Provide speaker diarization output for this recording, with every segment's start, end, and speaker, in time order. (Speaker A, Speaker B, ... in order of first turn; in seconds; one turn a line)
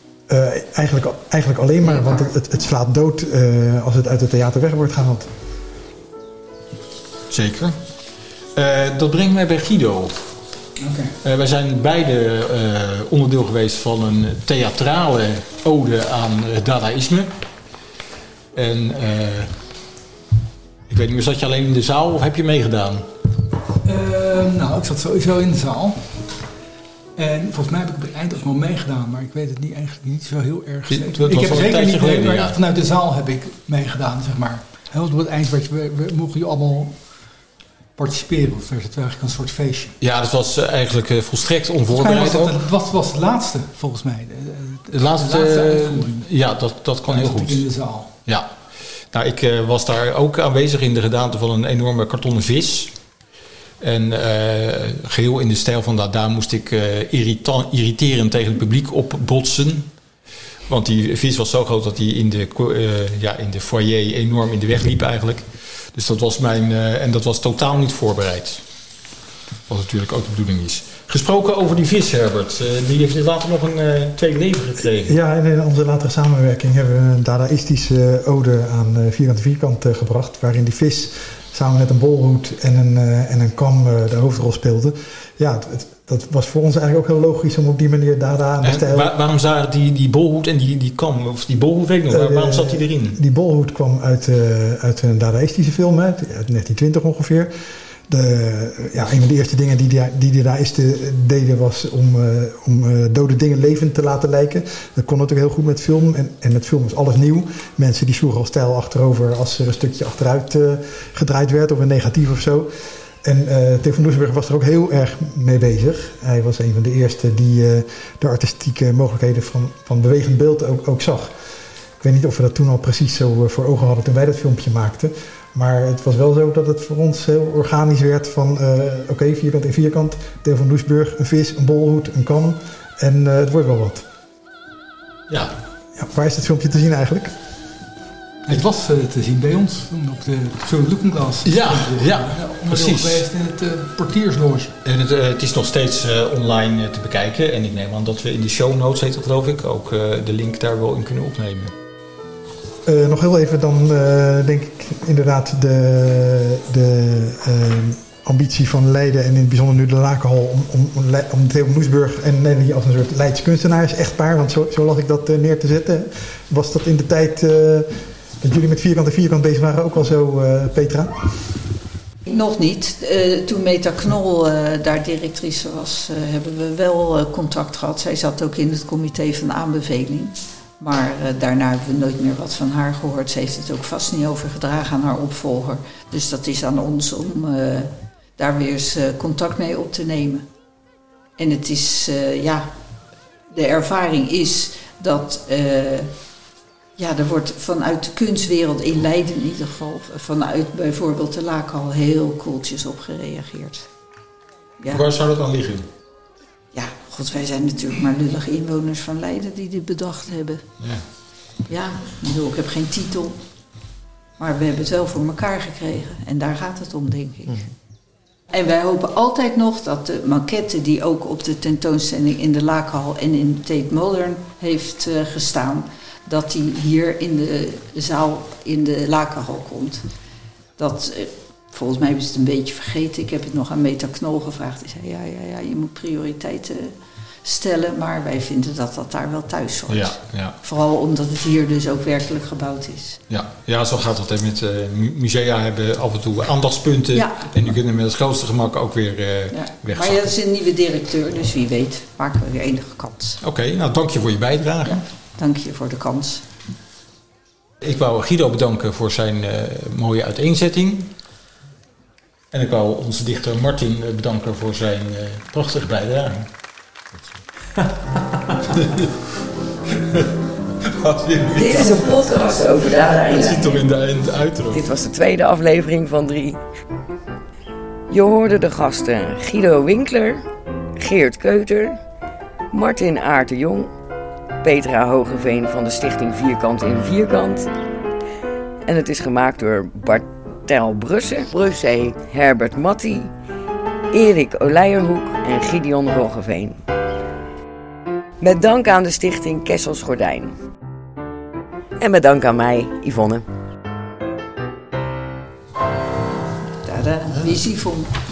Speaker A: 0.3-5.3
Speaker B: 7.3-7.8
Speaker B: 8.5-10.1
Speaker C: 10.8-11.1
Speaker B: 11.2-17.3
Speaker B: 18.5-19.5
Speaker B: 20.9-23.1
Speaker C: 23.8-26.1
Speaker C: 27.1-37.0
Speaker B: 30.9-32.6
Speaker C: 38.0-39.9
Speaker B: 40.0-42.6
Speaker C: 41.9-46.3
Speaker B: 44.9-47.6
Speaker C: 47.1-48.1
Speaker B: 49.1-52.9
Speaker B: 53.8-59.9
Speaker B: 60.7-68.6
Speaker B: 69.7-75.1
Speaker A: 75.0-89.1
Speaker B: 88.6-93.2
Speaker A: 92.1-97.5
Speaker A: 98.1-112.7
Speaker A: 113.2-121.3
Speaker A: 122.0-134.0
Speaker A: 135.9-137.3
Speaker C: 138.5-144.7
Speaker B: 141.4-143.2
Speaker B: 144.8-151.7
Speaker A: 152.8-171.3
Speaker D: 172.2-190.4
Speaker D: 191.4-192.7
Speaker D: 193.5-196.1
Speaker D: 197.0-203.9
Speaker B: 204.9-205.9
Speaker D: 206.7-210.6
Speaker D: 211.7-213.4
Speaker D: 214.4-217.6
Speaker D: 218.5-230.0
Speaker D: 230.8-243.2
Speaker B: 239.9-240.6
Speaker B: 243.3-250.3
Speaker D: 247.1-247.5
Speaker D: 249.5-253.4
Speaker B: 253.4-255.0
Speaker D: 254.8-256.4
Speaker B: 257.8-261.1
Speaker B: 262.5-266.5
Speaker B: 270.8-272.1
Speaker E: 271.5-273.8
Speaker B: 273.2-274.8
Speaker E: 274.7-276.6
Speaker E: 278.1-280.4
Speaker E: 281.0-282.0
Speaker E: 282.7-283.9
Speaker E: 284.6-287.6
Speaker E: 288.8-293.3
Speaker E: 294.1-296.8
Speaker E: 298.4-300.5
Speaker E: 302.0-303.4
Speaker D: 306.8-308.1